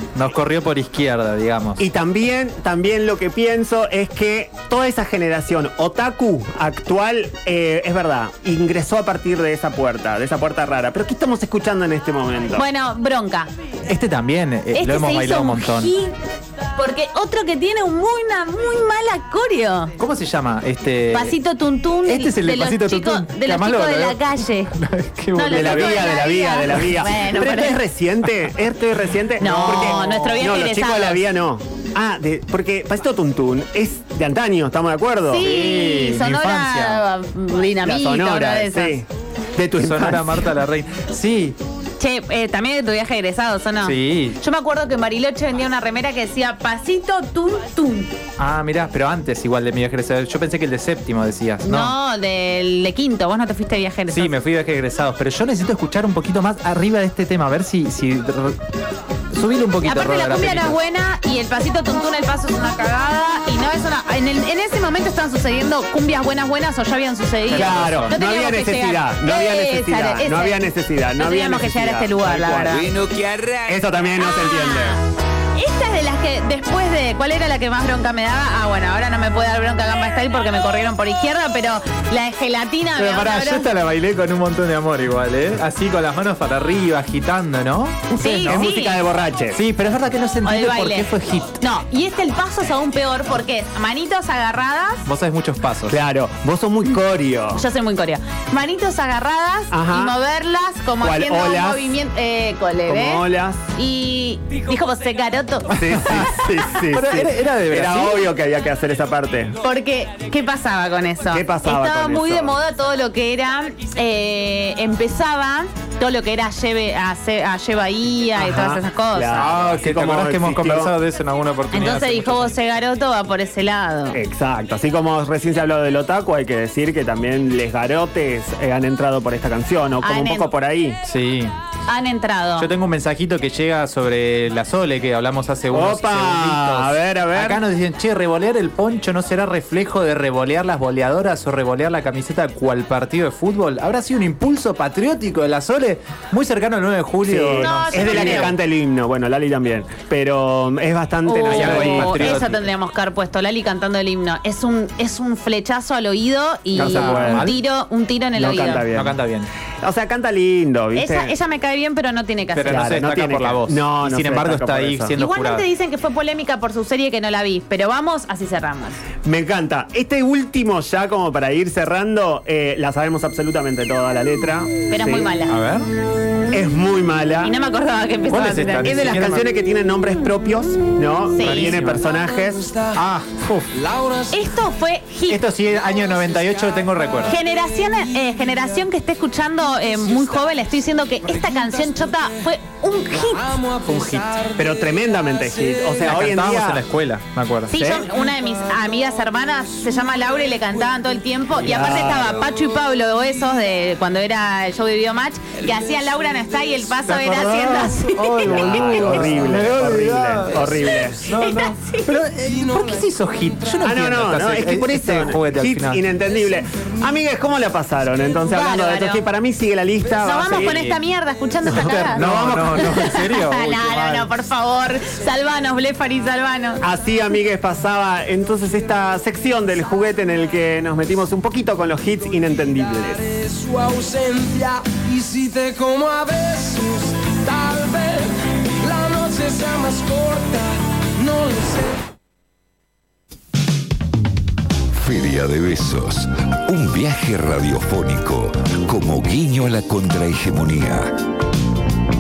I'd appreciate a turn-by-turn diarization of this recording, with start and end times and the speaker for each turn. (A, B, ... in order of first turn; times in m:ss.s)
0:00.2-0:01.8 A
0:01.8-0:12.7 B
0:12.5-0:13.5 C
0:13.9-0:15.9 A
0:14.7-0:16.2 C
0:16.8-0:20.0 C
0:20.0-0:21.4 A
0:21.1-0:24.7 C
0:22.1-0:26.1 A
0:25.4-0:27.8 C
0:25.5-0:35.5 B
0:29.4-0:31.2 C
0:35.3-0:39.0 C
0:35.4-0:37.0 A
0:37.8-0:40.4 B
0:39.8-0:41.6 A
0:42.0-0:48.1 C
0:43.8-0:44.4 A
0:48.4-0:51.9 A
0:51.6-0:54.3 C
0:54.1-0:58.6 A
0:59.3-1:00.8 A
0:59.8-1:10.6 C
1:07.5-1:08.2 A
1:07.5-1:12.9 B
1:11.2-1:12.9 C
1:12.9-1:13.5 A
1:13.6-1:15.0 B
1:14.2-1:15.0 C
1:15.6-1:23.7 C
1:23.0-1:28.7 A
1:28.2-1:29.0 C
1:28.4-1:29.6 B
1:29.5-1:31.6 A
1:30.4-1:35.1 C
1:35.1-1:36.0 A
1:35.9-1:37.6 B
1:37.5-1:45.7 C
1:39.7-1:40.2 B
1:41.0-1:41.9 B
1:42.9-1:43.6 B
1:45.7-1:48.3 A
1:45.8-1:49.6 B
1:49.6-1:59.5 C
1:51.3-1:52.6 B
1:58.4-2:00.9 B
1:59.4-2:02.5 A
2:01.7-2:04.2 C
2:04.1-2:11.0 B
2:10.0-2:10.5 C
2:11.0-2:11.5 A
2:11.9-2:12.7 C
2:12.6-2:28.5 A
2:15.7-2:17.6 B
2:27.2-2:32.4 B
2:27.6-2:28.5 C
2:31.2-2:38.9 C
2:31.5-2:32.6 A
2:36.8-2:37.5 B
2:36.8-2:37.6 A
2:38.4-2:39.2 B
2:38.6-2:39.5 A
2:39.8-2:41.3 B
2:41.0-2:42.9 C
2:42.5-2:45.6 A
2:42.7-2:45.2 B
2:45.1-2:49.0 C
2:49.2-2:55.3 B
2:54.9-2:55.6 C
2:55.5-2:55.9 A
2:56.5-2:57.5 B
2:57.4-2:59.0 C
2:58.3-2:59.5 A
2:58.8-3:02.8 B
3:01.4-3:01.9 C
3:01.4-3:02.1 A
3:02.9-3:03.7 A
3:03.8-3:04.3 D
3:04.3-3:05.4 C
3:05.3-3:07.4 A
3:07.2-3:13.6 C
3:13.5-3:14.6 D
3:13.8-3:14.4 A
3:14.6-3:16.8 B
3:16.0-3:17.7 A
3:17.7-3:29.3 C
3:17.7-3:18.1 B
3:21.6-3:22.4 B
3:21.6-3:22.1 A
3:27.0-3:36.0 A
3:28.4-3:31.2 B
3:30.8-3:32.1 C
3:33.8-3:40.8 B
3:38.5-3:39.3 C
3:40.2-3:46.8 C
3:40.5-3:41.0 A
3:41.7-3:42.9 B
3:41.7-3:44.3 A
3:46.8-3:53.3 B
3:53.4-4:02.0 D
4:04.9-4:11.3 E